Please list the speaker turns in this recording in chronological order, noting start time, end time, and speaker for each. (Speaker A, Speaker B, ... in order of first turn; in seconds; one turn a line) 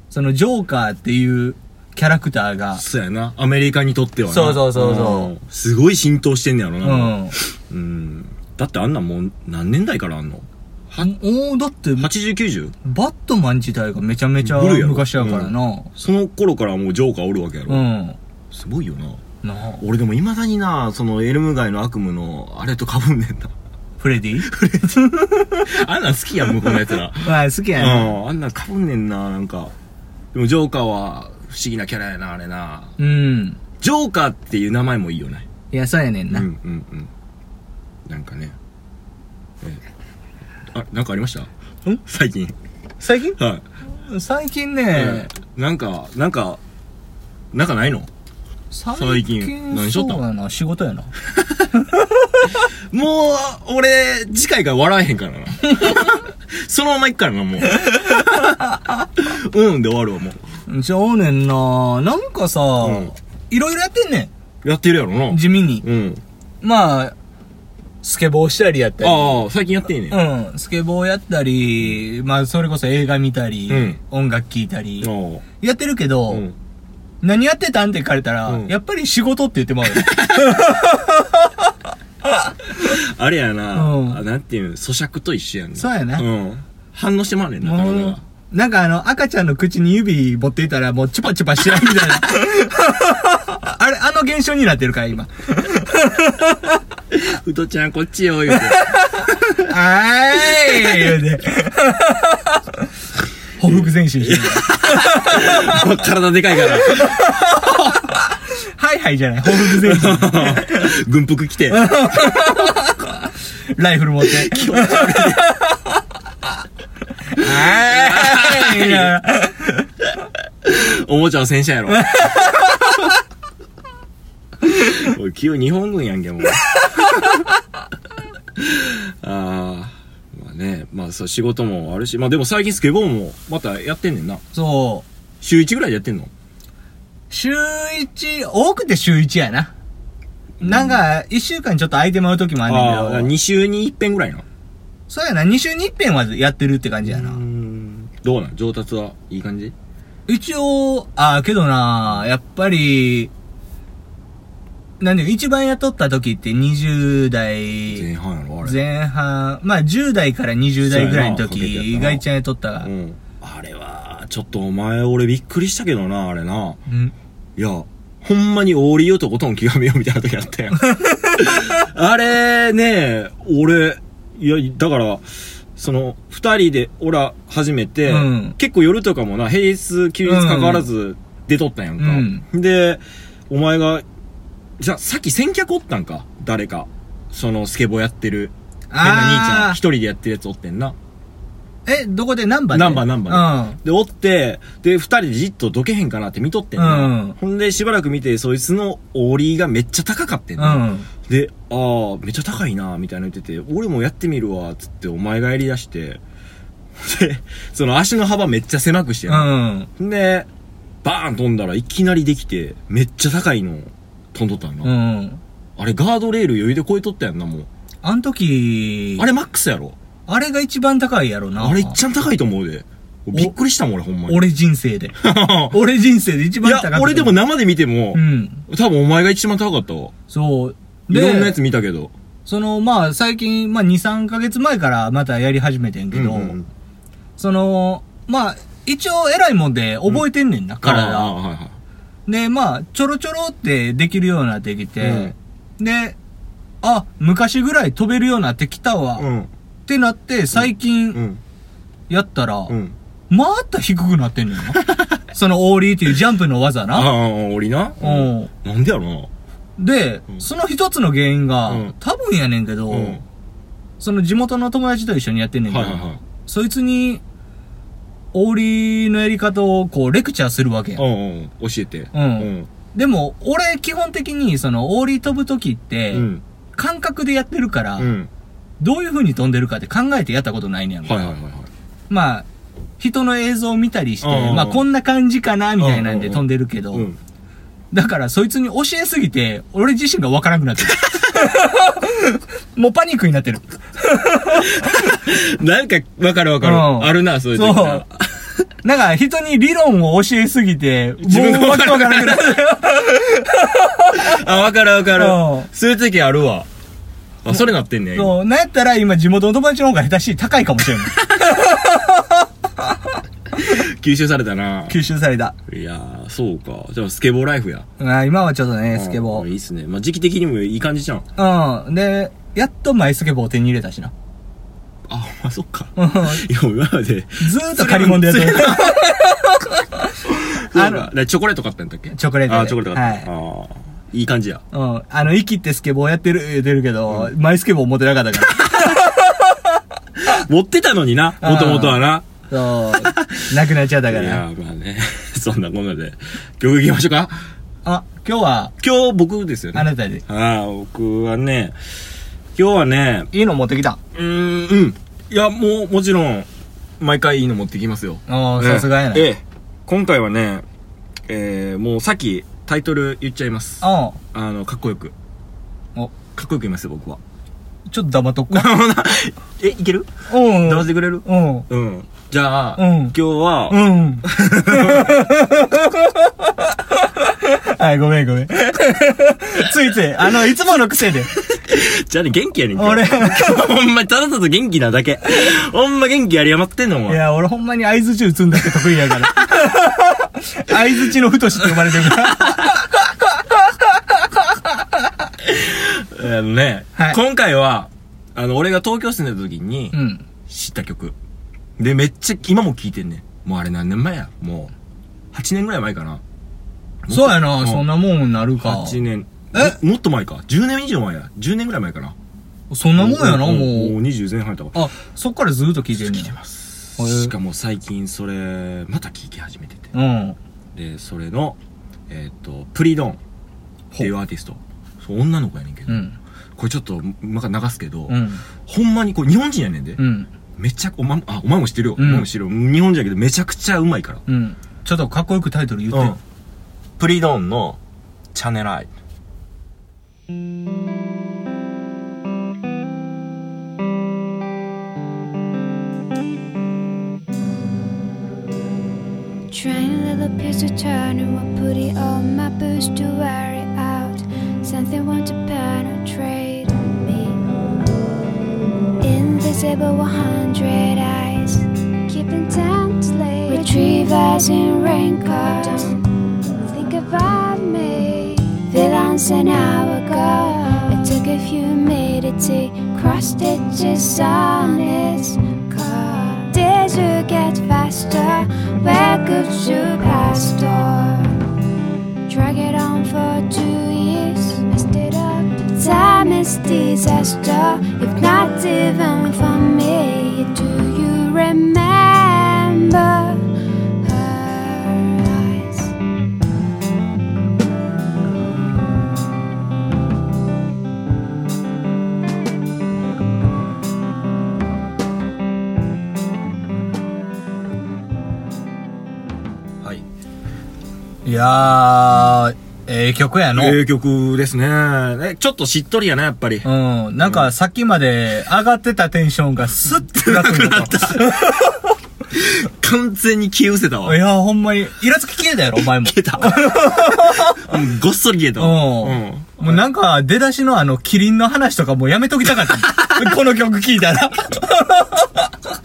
Speaker A: 0.1-2.8
Speaker B: 2.8-11.1
Speaker A: 4.3-5.3
Speaker A: 6.8-7.4
Speaker A: 11.0-12.1
Speaker B: 12.0-12.8
Speaker A: 12.8-15.9
Speaker B: 14.4-17.8
Speaker A: 17.7-18.2
Speaker B: 18.5-19.2
Speaker A: 19.4-19.8
Speaker B: 19.8-23.5
Speaker A: 24.0-25.7
Speaker B: 24.5-25.0
Speaker B: 25.6-29.7
Speaker A: 27.2-28.1
Speaker B: 30.3-33.0
Speaker A: 33.0-33.6
Speaker B: 33.8-35.5
Speaker A: 35.7-36.5
Speaker B: 36.3-37.1
Speaker B: 38.1-38.6
Speaker B: 40.7-41.5
Speaker B: 42.1-42.5
Speaker A: 43.0-43.4
Speaker B: 43.4-43.6
Speaker A: 44.0-45.3
Speaker B: 44.9-46.6
Speaker B: 47.5-48.1
Speaker A: 48.7-51.1
Speaker B: 49.0-50.2
Speaker A: 51.8-52.5
Speaker B: 52.9-58.6
Speaker B: 59.2-60.4
Speaker A: 60.7-64.3
Speaker B: 62.8-63.1
Speaker B: 64.6-66.2
Speaker A: 65.3-65.8
Speaker A: 66.6-67.2
Speaker A: 68.0-69.4
Speaker B: 69.0-70.2
Speaker A: 70.1-76.5
Speaker B: 73.7-74.0
Speaker B: 75.0-75.4
Speaker B: 76.3-76.6
Speaker A: 77.2-81.7
Speaker B: 78.5-78.7
Speaker B: 79.9-80.6
Speaker B: 82.8-88.2
Speaker A: 83.7-84.2
Speaker A: 85.8-86.3
Speaker A: 87.6-96.7
Speaker B: 97.1-99.7
Speaker A: 98.5-102.8
Speaker B: 100.6-101.1
Speaker A: 103.6-105.8
Speaker B: 103.6-107.2
Speaker A: 106.8-110.9
Speaker B: 109.5-112.5
Speaker A: 111.7-115.8
Speaker B: 114.2-115.5
Speaker A: 117.3-119.9
Speaker B: 117.4-119.2
Speaker B: 120.6-122.8
Speaker A: 121.9-122.8
Speaker B: 124.7-127.4
Speaker B: 128.6-134.4
Speaker A: 134.5-135.1
Speaker B: 135.4-136.3
Speaker A: 137.3-139.7
Speaker B: 140.6-141.0
Speaker A: 140.6-143.3
Speaker B: 142.7-144.4
Speaker A: 145.1-147.4
Speaker B: 147.0-149.8
Speaker A: 150.3-153.3
Speaker A: 155.0-158.1
Speaker B: 157.9-158.8
Speaker A: 158.6-162.9
Speaker B: 160.8-162.2
Speaker B: 162.8-166.8
Speaker A: 166.9-167.1
Speaker B: 167.6-184.1
Speaker A: 170.8-171.5
Speaker A: 178.1-178.6
Speaker A: 180.2-180.9
Speaker A: 182.0-182.4
Speaker B: 184.8-191.0
Speaker A: 188.9-189.8
Speaker A: 191.9-193.8
Speaker B: 192.7-206.2
Speaker A: 196.8-197.4
Speaker A: 200.6-201.1
Speaker B: 206.9-210.5
Speaker A: 209.3-209.9
Speaker B: 211.0-214.9
Speaker A: 214.8-215.4
Speaker B: 215.8-217.7
Speaker A: 218.0-219.3
Speaker B: 219.2-220.0
Speaker A: 220.3-222.0
Speaker B: 221.6-224.4
Speaker A: 224.3-225.2
Speaker B: 225.2-225.8
Speaker A: 225.7-227.3
Speaker B: 226.6-230.1
Speaker A: 228.1-228.6
Speaker A: 230.3-231.6
Speaker B: 231.1-232.1
Speaker A: 232.5-236.6
Speaker B: 236.1-236.7
Speaker A: 237.4-241.4
Speaker B: 240.8-241.8
Speaker A: 242.3-246.2
Speaker B: 245.0-245.3
Speaker A: 246.8-249.3
Speaker B: 249.2-249.5
Speaker A: 249.9-251.2
Speaker B: 250.5-251.4
Speaker A: 252.1-252.7
Speaker B: 252.7-252.9
Speaker A: 253.3-257.1
Speaker B: 256.9-259.3
Speaker A: 258.0-258.5
Speaker A: 259.8-263.2
Speaker B: 261.7-261.9
Speaker B: 262.9-263.2
Speaker A: 264.0-267.2
Speaker B: 265.7-266.2
Speaker A: 268.3-271.0
Speaker B: 271.0-272.7
Speaker A: 272.1-278.1
Speaker B: 276.1-276.4
Speaker B: 278.0-278.3
Speaker A: 278.8-281.3
Speaker B: 281.1-281.7
Speaker A: 282.1-282.5
Speaker A: 283.0-287.1
Speaker B: 284.2-284.9
Speaker B: 285.8-287.2
Speaker A: 287.9-294.9
Speaker B: 294.6-298.5
Speaker A: 296.6-298.0
Speaker A: 298.8-304.3
Speaker B: 301.2-303.0
Speaker B: 304.1-306.7
Speaker A: 305.2-305.7
Speaker B: 307.4-308.4
Speaker A: 308.1-312.4
Speaker B: 313.6-315.0
Speaker A: 314.9-315.6
Speaker B: 315.7-317.9
Speaker A: 318.0-319.5
Speaker B: 318.9-321.2
Speaker A: 321.4-324.1
Speaker B: 325.1-329.1
Speaker A: 326.0-326.4
Speaker A: 327.4-330.0
Speaker B: 330.2-334.6
Speaker A: 330.7-331.1
Speaker A: 332.1-333.3
Speaker A: 334.7-339.6
Speaker B: 338.6-338.9
Speaker B: 340.2-342.3
Speaker A: 341.4-344.4
Speaker B: 342.9-343.6
Speaker B: 344.1-347.4
Speaker A: 347.9-348.7
Speaker B: 348.8-351.8
Speaker A: 349.8-350.2
Speaker B: 352.6-353.3
Speaker A: 353.3-354.0
Speaker B: 354.1-356.5
Speaker B: 357.0-360.6
Speaker A: 358.3-359.3
Speaker B: 361.3-365.1
Speaker A: 363.8-364.2
Speaker B: 366.3-367.2
Speaker A: 367.9-368.7
Speaker B: 368.5-375.2
Speaker A: 370.3-371.7
Speaker A: 372.8-373.1
Speaker A: 373.7-381.3
Speaker B: 381.4-387.2
Speaker A: 382.8-383.6
Speaker A: 387.1-393.4
Speaker B: 388.8-389.6
Speaker B: 392.0-392.7
Speaker B: 395.4-399.9
Speaker A: 399.9-400.2
Speaker B: 400.5-401.1
Speaker B: 401.8-404.7
Speaker B: 405.3-406.2
Speaker B: 407.1-407.9
Speaker A: 407.1-409.0
Speaker B: 408.6-412.2
Speaker A: 412.7-413.9
Speaker B: 413.0-414.8
Speaker A: 414.8-416.4
Speaker B: 415.9-419.9
Speaker A: 417.0-417.3
Speaker A: 419.9-420.4
Speaker B: 420.7-421.6
Speaker B: 422.1-423.2
Speaker B: 424.0-426.0
Speaker A: 425.9-426.2
Speaker B: 426.6-430.0
Speaker A: 428.1-428.4
Speaker A: 430.0-430.3
Speaker B: 430.6-434.2
Speaker A: 432.0-432.3
Speaker A: 434.3-436.2
Speaker B: 435.9-436.2
Speaker B: 437.0-437.8
Speaker B: 438.3-438.9
Speaker C: 449.5-457.4
Speaker C: 459.0-466.1
Speaker C: 466.6-481.4
Speaker C: 482.3-495.9
Speaker A: 511.2-513.8
Speaker B: 513.5-516.7
Speaker A: 516.6-521.8
Speaker B: 517.2-517.5
Speaker B: 519.9-521.3
Speaker B: 522.3-524.2
Speaker A: 524.0-527.7
Speaker B: 526.0-529.8
Speaker A: 528.6-535.5
Speaker B: 532.7-533.4